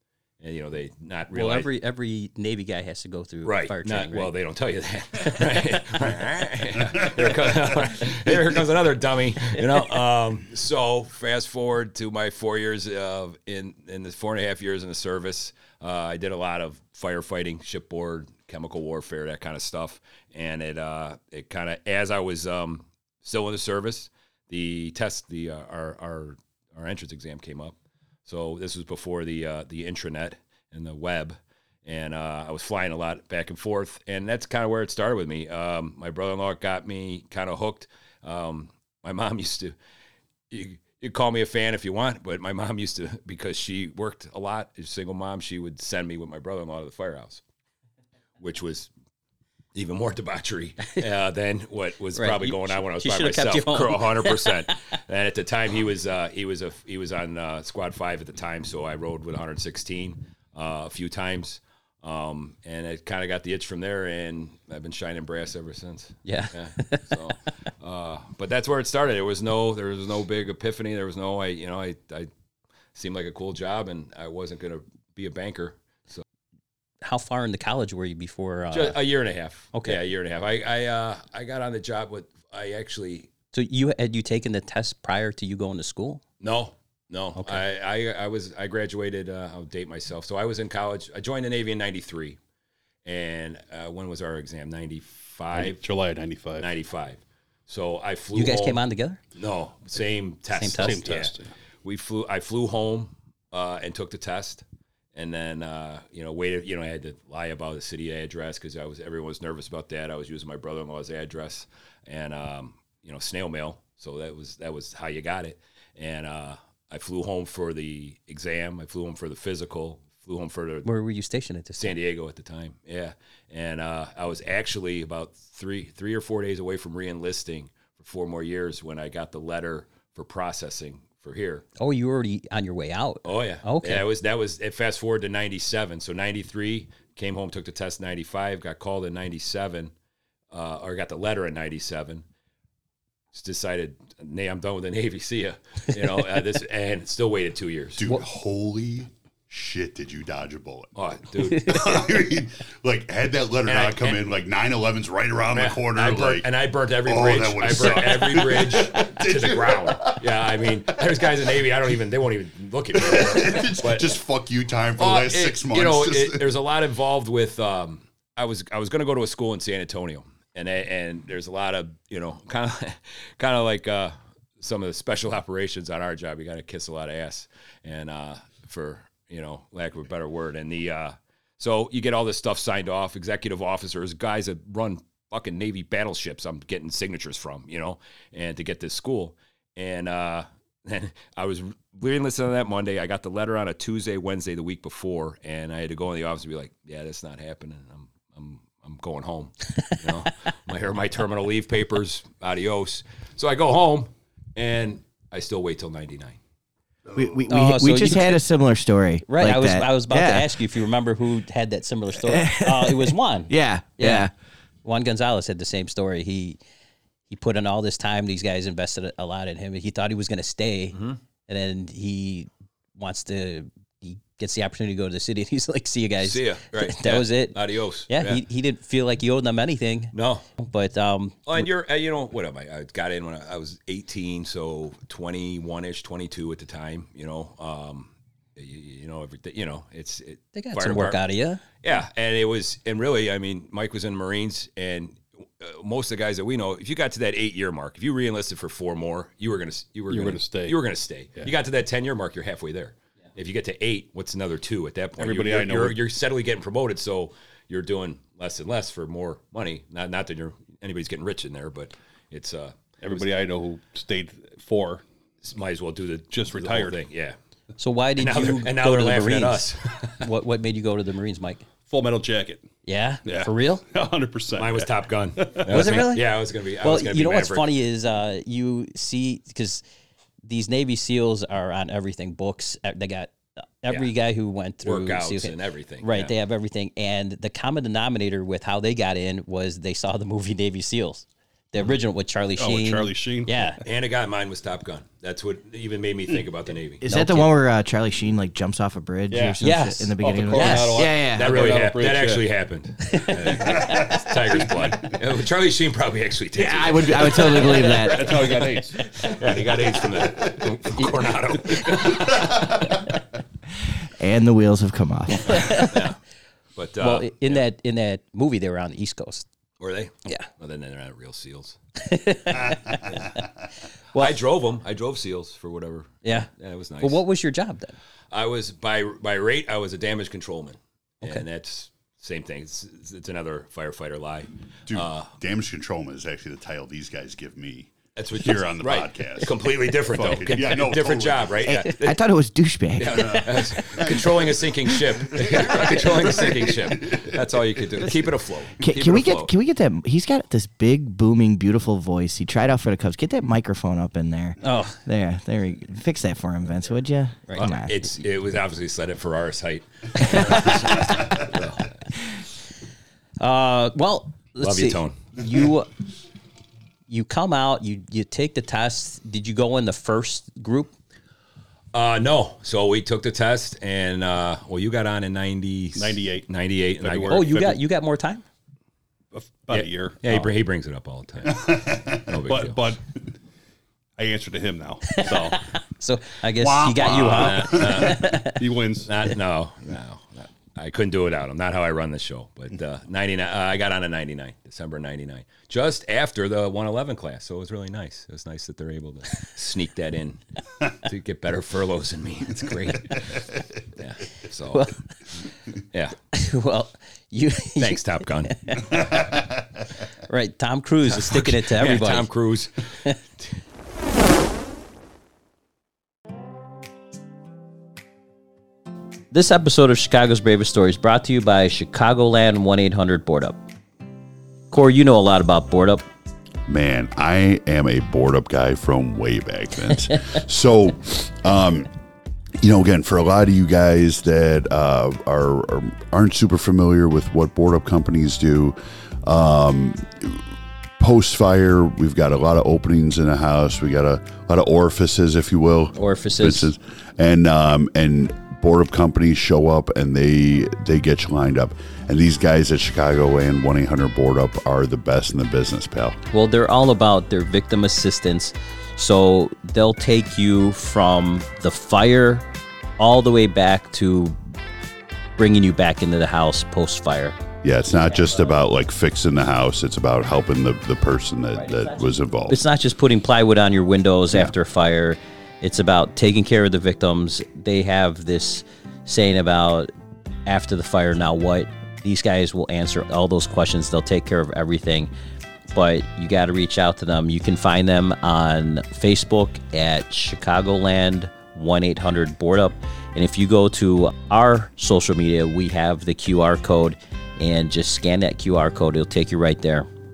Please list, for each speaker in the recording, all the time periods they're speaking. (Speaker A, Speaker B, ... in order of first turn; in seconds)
Speaker A: 0.4-1.7, 3.4-27.8, 28.3-39.7, 40.5-47.4, 48.4-48.9, 49.8-72.3, 73.0-76.2, 78.7-83.3, 86.4-92.4, 93.0-95.8, 96.6-98.8, 99.4-104.6, 105.2-120.9, 121.8-131.7, 133.2-139.9, 140.5-142.2, 143.3-148.1, 150.9-152.0, 153.7-154.2, 155.6-164.2, 165.0-206.4, 220.9-221.2, 226.2-228.4, 230.1-230.4, 231.4-241.2, 241.8-263.2, 265.4-267.4, 268.2-270.2, 274.6-277.8, 284.8-286.3, 293.8-297.3, 301.1-307.9, 309.2-312.9, 315.5-316.2, 316.8-317.6, 319.8-321.8, 324.1-327.2, 328.3-335.3, 338.2-342.2, 343.0-349.5, 357.6-361.9, 364.6-365.2, 371.9-377.4, 379.7-382.8, 387.2-388.4, 389.1-404.9, 407.8-408.9, 411.1-413.0
Speaker B: 1.3-4.3, 52.1-54.7, 66.3-67.1, 77.0-79.0, 79.7-80.0, 83.5-86.2, 87.4-87.6, 98.3-99.2, 100.5-101.0, 120.8-121.9, 131.8-134.1, 151.4-151.9, 207.5-208.4, 209.3-214.3, 214.8-216.6, 217.3-221.0, 221.5-231.7, 240.6-241.6, 267.8-269.7, 270.2-271.6, 272.8-273.9, 275.7-279.8, 280.5-293.8, 297.1-297.5, 299.6-301.1, 303.0-304.1, 311.7-312.2, 315.5-315.9, 317.0-319.4, 322.0-323.4, 326.2-328.0, 354.6-355.0, 363.4-365.9, 367.1-370.9, 377.3-378.4, 385.1-388.6, 404.7-405.0, 406.3-409.0, 410.3-412.3, 419.3-423.6, 424.7-426.1, 445.9-446.7, 456.3-462.4, 463.0-464.4, 465.4-467.4, 468.0-468.6, 471.6-479.9, 480.4-485.1, 485.7-499.9
Speaker C: 95.5-96.7, 100.7-101.5, 250.1-250.8, 255.2-256.0, 263.0-265.0, 266.3-267.0, 271.9-272.7, 273.2-276.0, 292.6-293.8, 299.3-302.4, 307.7-309.0, 375.9-377.8, 379.3-380.5, 382.4-383.1, 384.2-385.6, 388.1-389.1
Speaker D: 148.0-150.9, 151.5-156.5, 157.0-161.6, 162.9-166.5, 334.9-341.6, 343.9-344.4, 345.3-347.3, 381.6-382.2, 386.6-388.0, 426.7-431.9, 432.6-440.4, 441.0-456.2, 467.6-472.6
Speaker E: 207.2-210.6, 212.2-214.3, 297.0-301.6, 306.6-308.6, 314.2-315.9, 341.6-343.7, 348.8-357.9, 360.4-360.7